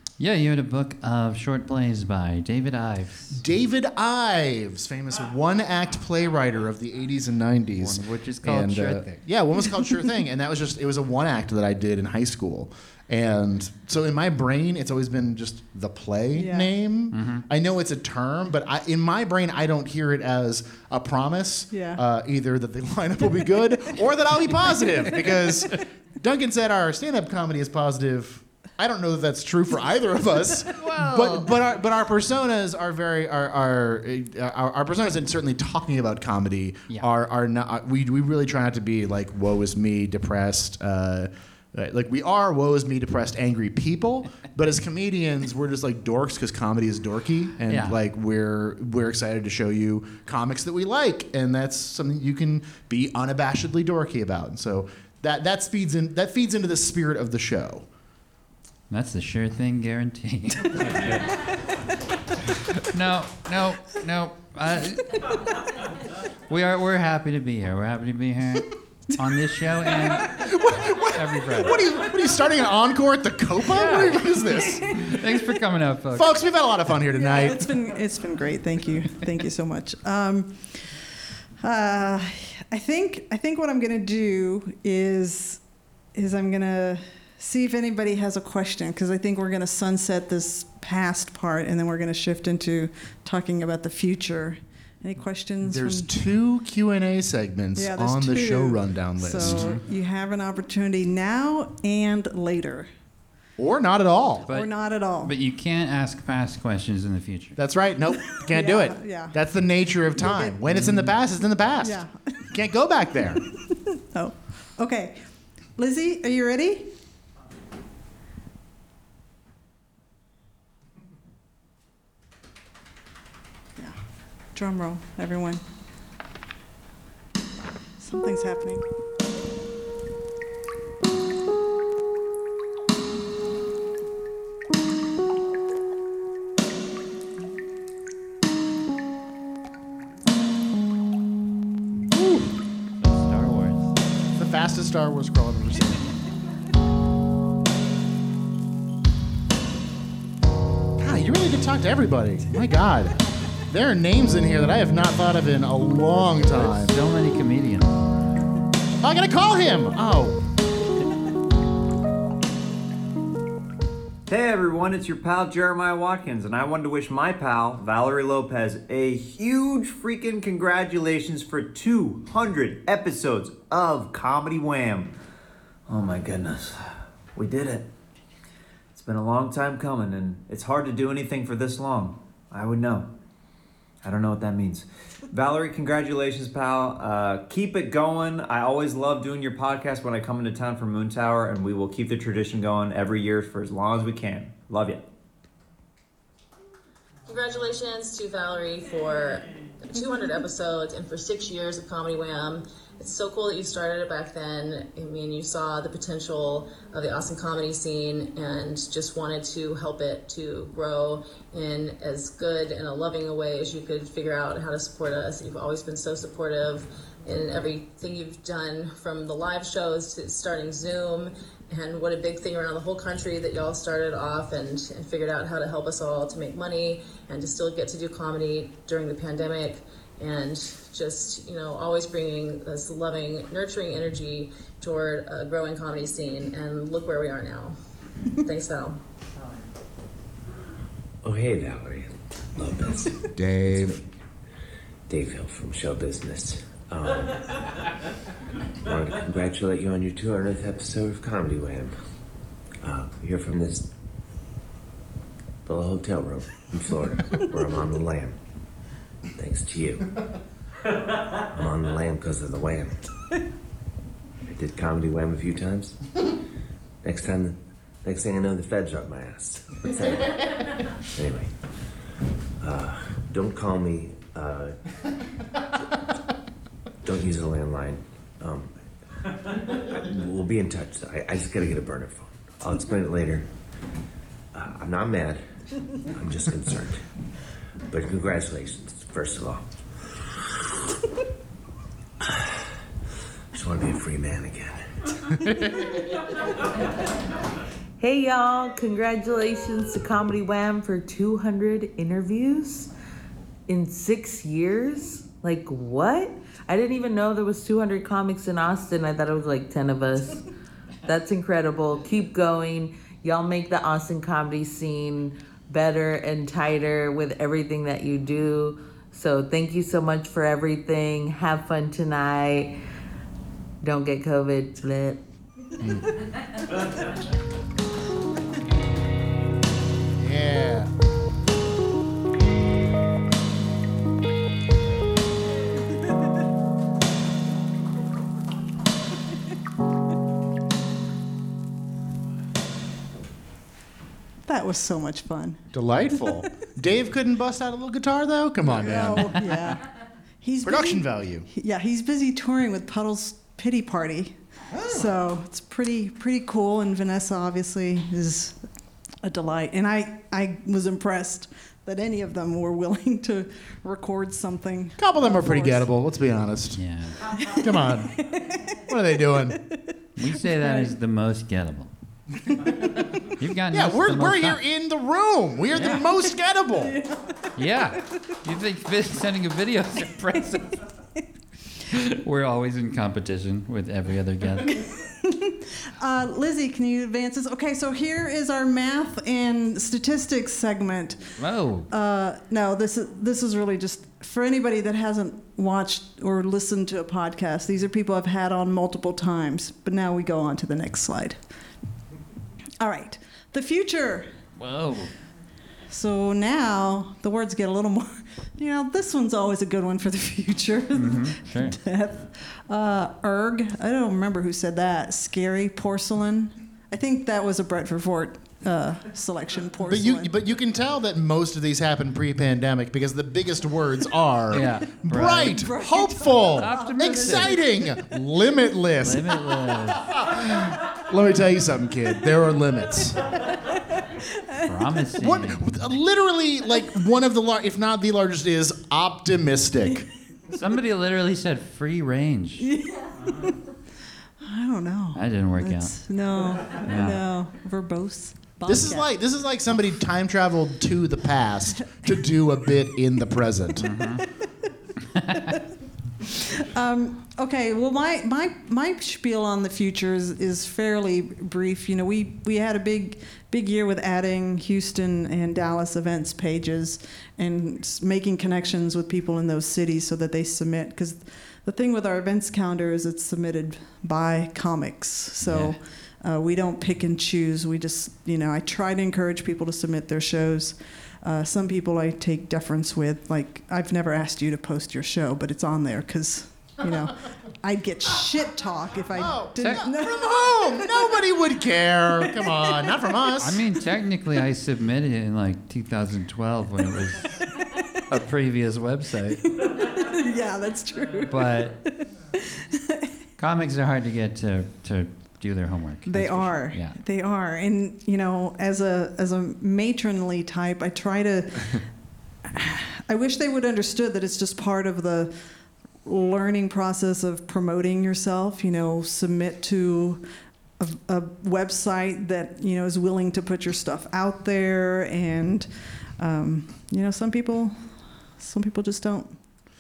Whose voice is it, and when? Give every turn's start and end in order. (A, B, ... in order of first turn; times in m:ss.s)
0:00.2-0:03.4 A
0:03.3-0:57.9 B
0:07.8-0:09.2 A
0:16.4-0:16.7 C
0:17.1-0:17.4 A
0:21.7-0:22.0 C
0:30.7-0:31.5 A
0:47.7-0:48.0 A
0:58.9-1:01.4 A
1:02.5-1:05.3 A
1:06.5-1:10.4 A
1:10.3-1:15.0 B
1:11.1-1:11.8 A
1:13.7-1:14.3 A
1:14.9-1:16.4 A
1:16.1-1:17.7 B
1:17.2-1:21.0 C
1:21.6-1:25.6 C
1:26.2-1:36.1 C
1:35.6-1:39.7 B
1:37.8-1:42.9 C
1:39.4-1:39.8 A
1:43.6-1:44.5 B
1:44.5-1:47.6 A
1:44.5-1:45.3 C
1:47.6-1:53.4 B
1:48.4-1:49.4 C
1:50.2-1:50.6 C
1:50.7-1:51.1 A
1:51.8-1:52.3 C
1:53.9-1:55.2 C
1:55.8-1:56.9 C
2:04.5-2:05.6 C
2:08.0-2:08.8 C
2:22.1-2:22.5 B
2:23.0-2:23.9 A
2:24.4-2:26.1 B
2:31.0-2:33.2 B
2:33.7-2:37.0 B
2:36.5-2:38.1 A
2:39.0-2:40.4 B
2:44.3-2:55.1 D
2:55.9-2:56.8 D
2:57.4-2:57.9 D
2:59.0-3:03.1 D
3:04.0-3:15.0 D
3:17.3-3:57.8 E
3:58.4-3:59.0 E
4:01.2-4:03.9 F
4:03.4-4:03.9 B
4:05.1-4:07.6 F
4:08.8-4:11.9 F
4:12.8-4:13.9 F
4:15.6-4:18.4 F
4:19.4-4:20.1 F
4:21.5-4:23.0 F
4:24.5-4:26.0 F
4:27.0-4:30.5 F
4:31.1-4:31.5 F
4:32.6-4:34.8 F
4:37.0-4:38.7 F
4:39.8-4:43.5 F
4:44.5-4:45.4 F
4:46.0-4:47.0 F
4:47.9-4:49.6 F
4:53.5-4:54.8 F
4:55.5-4:55.8 B
4:58.0-5:02.9 G
5:03.7-5:10.4 G
5:11.0-5:22.7 G
5:23.8-5:25.2 G
5:30.2-5:30.9 B
5:44.5-5:45.6 C
5:45.7-5:49.4 B
5:48.6-5:49.8 C
5:49.2-5:49.4 A
5:50.4-5:58.6 C
5:50.6-5:51.5 B
5:59.2-6:05.9 C
6:05.0-6:06.8 B
6:06.8-6:07.2 A
6:07.4-6:08.8 C
6:07.5-6:08.2 B
6:08.9-6:09.6 B
6:10.2-6:11.9 A
6:10.6-6:10.9 C
6:13.4-6:14.6 A
6:13.7-6:17.0 B
6:15.8-6:16.0 A
6:16.9-6:17.3 C
6:17.6-6:20.8 A
6:21.9-6:24.8 A
6:24.6-6:31.4 C
6:31.4-6:31.9 A
6:31.9-6:41.4 C
6:42.8-6:44.3 C
6:44.6-6:45.1 A
6:45.9-7:00.3 C
6:50.9-6:51.8 A
6:59.8-7:13.2 B
7:04.5-7:05.7 A
7:05.5-7:07.6 C
7:06.6-7:07.6 A
7:09.0-7:10.2 A
7:14.3-7:14.6 C
7:14.6-7:15.7 A
7:15.2-7:20.1 B
7:20.5-7:22.7 A
7:22.6-7:23.5 C
7:24.4-7:29.1 C
7:25.1-7:26.0 A
7:26.8-7:27.2 A
7:28.6-7:33.9 B
7:33.8-7:34.3 A
7:35.2-7:35.5 A
7:36.3-8:11.2 C
7:55.5-7:55.8 A
8:09.1-8:13.6 B
8:13.4-8:17.4 A
8:18.1-8:19.4 A
8:19.6-8:23.1 C
8:21.3-8:21.8 A
8:23.4-8:27.0 A
8:26.1-8:35.4 C
8:36.0-8:40.2 C
8:40.8-8:45.7 C
8:46.2-8:49.4 C